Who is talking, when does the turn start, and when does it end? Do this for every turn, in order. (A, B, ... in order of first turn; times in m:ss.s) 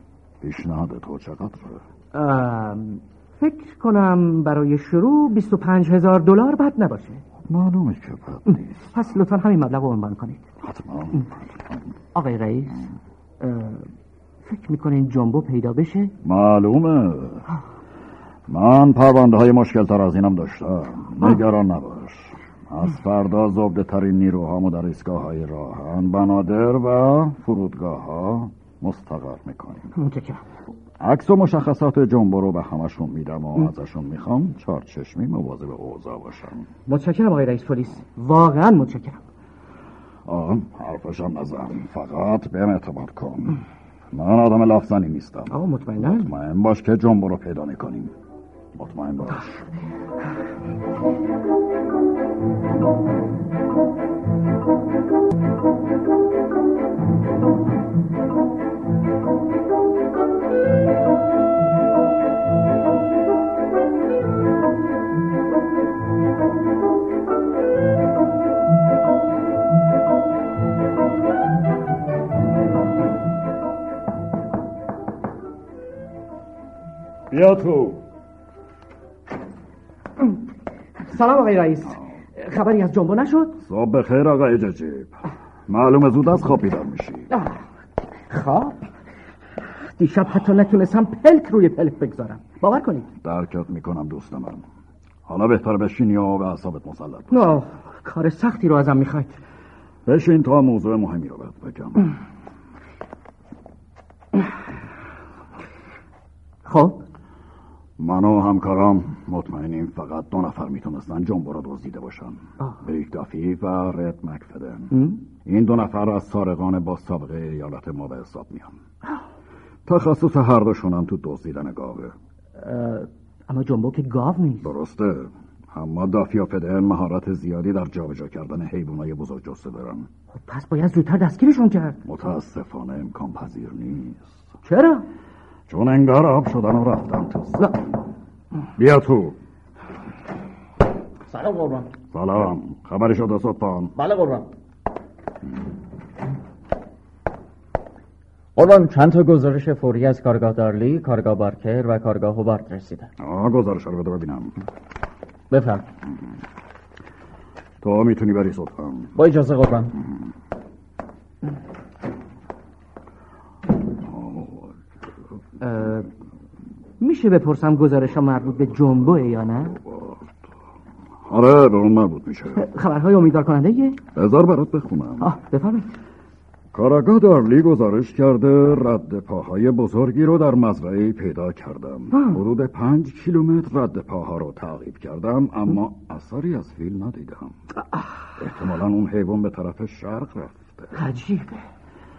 0:00.4-0:01.8 A
0:02.1-0:07.2 B
0:07.4-0:08.9 A
0:08.5-0:10.4 B
0:10.6-0:11.9 A
0:12.1-0:12.9 B
0:13.4-0:13.9 B
0:14.4-0:16.1 B
0:16.2-0:17.4 A
0:18.5-0:29.9 A
0:29.9-0:30.4 B
0:31.0-0:36.7 A
0:36.9-0:39.2 B
0:40.2-0:43.6 A
0:44.1-0:48.1 A
0:45.5-0:46.3 B
0:48.7-0:49.6 A
1:17.3-1:18.0 A
1:21.0-1:23.6 B
1:23.6-1:27.3 A
1:27.3-1:27.6 B
1:28.3-1:28.9 B
1:30.0-1:33.1 B
1:33.2-1:34.6 A
1:35.2-1:37.6 A
1:37.3-1:39.4 B
1:40.0-1:42.1 A
1:46.6-1:47.0 B
1:48.0-1:58.8 A
1:59.8-2:02.1 A
2:02.6-2:04.7 B
2:04.6-2:10.1 A
2:10.3-2:12.0 B
2:12.0-2:14.3 A
2:14.6-2:15.0 B
2:15.7-2:17.8 A
2:18.8-2:19.4 A
2:21.3-2:21.9 C
2:22.1-2:23.9 A
2:24.0-2:24.5 C
2:28.6-2:33.1 C
2:33.2-2:34.6 A
2:35.5-2:35.8 C
2:37.8-2:39.1 A
2:39.2-2:39.9 C
2:44.0-2:44.7 A
2:45.6-2:46.1 B
2:47.0-2:49.8 B
2:49.8-2:50.3 A
2:51.2-2:52.7 A
2:52.6-2:54.0 B
2:54.1-2:55.3 A
2:55.2-2:55.9 B
2:56.7-3:07.6 A
3:02.1-3:02.4 B
3:08.4-3:10.9 A
3:10.9-3:11.6 B